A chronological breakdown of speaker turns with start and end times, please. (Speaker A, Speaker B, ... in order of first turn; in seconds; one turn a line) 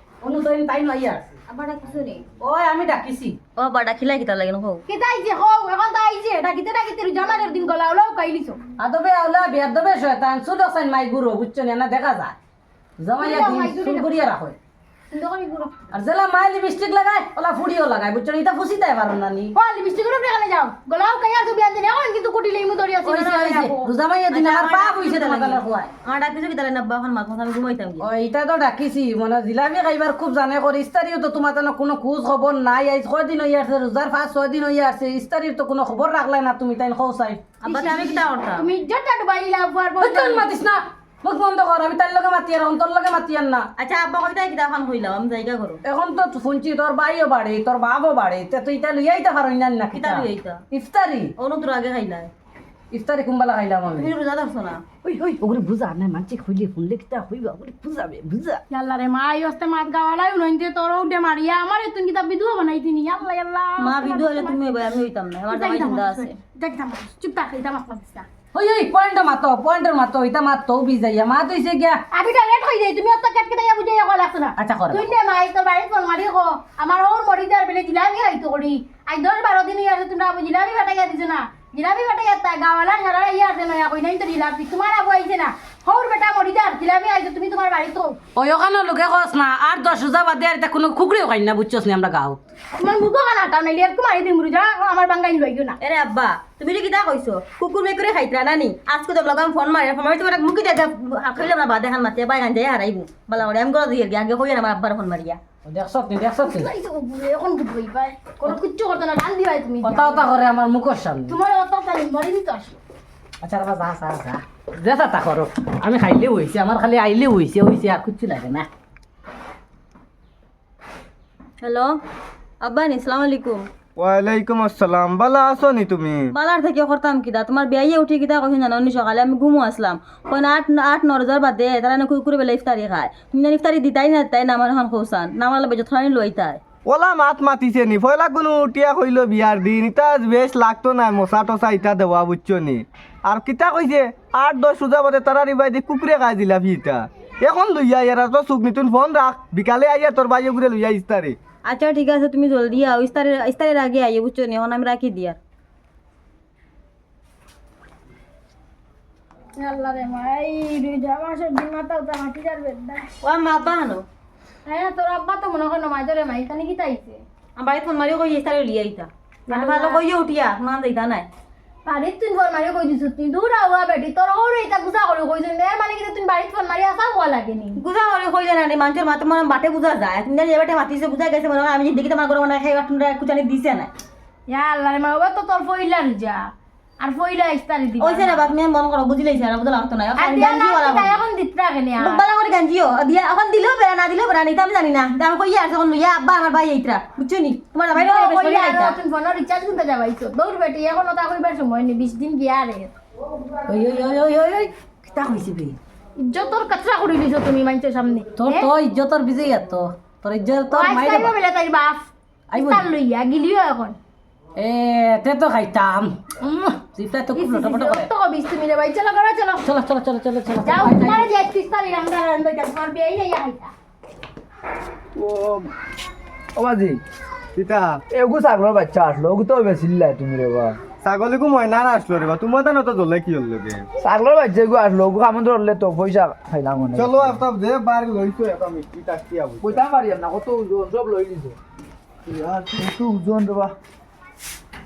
Speaker A: 0.2-1.3
Speaker B: 1.5-2.2
Speaker A: 2.4-3.4
Speaker B: 3.6-4.8
Speaker C: 4.9-8.6
Speaker A: 8.8-12.3
Speaker A: 13.0-14.6
Speaker C: 13.2-14.1
Speaker C: 15.1-15.7
Speaker A: 15.9-19.6
Speaker C: 19.5-23.9
Speaker A: 23.0-25.9
Speaker B: 24.3-28.0
Speaker A: 28.0-37.4
Speaker B: 37.6-38.7
Speaker C: 37.6-40.5
Speaker A: 40.0-43.7
Speaker B: 43.8-45.8
Speaker A: 45.8-51.3
Speaker B: 49.9-50.6
Speaker B: 51.4-52.3
Speaker A: 52.9-54.1
Speaker B: 53.9-54.8
Speaker A: 55.0-58.6
Speaker C: 58.7-64.6
Speaker B: 63.8-66.3
Speaker C: 65.5-68.3
Speaker A: 68.5-72.0
Speaker C: 72.1-88.2
Speaker A: 74.6-75.0
Speaker A: 88.3-92.4
Speaker C: 92.8-95.8
Speaker B: 95.8-105.4
Speaker A: 105.6-106.7
Speaker C: 106.4-110.3
Speaker A: 109.8-111.3
Speaker C: 111.3-112.8
Speaker A: 113.4-118.7
Speaker B: 121.6-122.0
Speaker B: 122.6-123.6
Speaker D: 124.0-126.3
Speaker B: 126.3-136.6
Speaker D: 136.8-151.4
Speaker B: 151.7-155.4
Speaker C: 159.6-163.1
Speaker B: 163.2-164.1
Speaker C: 164.7-167.2
Speaker B: 167.6-171.3
Speaker C: 169.5-170.0
Speaker C: 171.8-177.8
Speaker B: 177.8-183.9
Speaker C: 184.5-186.5
Speaker C: 187.0-188.3
Speaker B: 188.0-191.2
Speaker C: 190.2-192.2
Speaker B: 192.0-199.0
Speaker C: 197.9-202.9
Speaker A: 203.7-205.8
Speaker C: 206.2-208.7
Speaker A: 208.4-211.3
Speaker C: 210.7-213.9
Speaker A: 212.5-212.9
Speaker A: 214.6-218.1
Speaker C: 217.3-219.6
Speaker A: 219.6-221.3
Speaker C: 220.6-223.7
Speaker E: 225.2-225.7
Speaker E: 226.6-227.0
Speaker D: 227.5-228.0
Speaker E: 228.1-230.8
Speaker D: 231.0-233.8
Speaker E: 234.0-237.4
Speaker D: 236.9-239.8
Speaker E: 239.6-241.6
Speaker D: 242.3-242.6
Speaker E: 242.6-243.7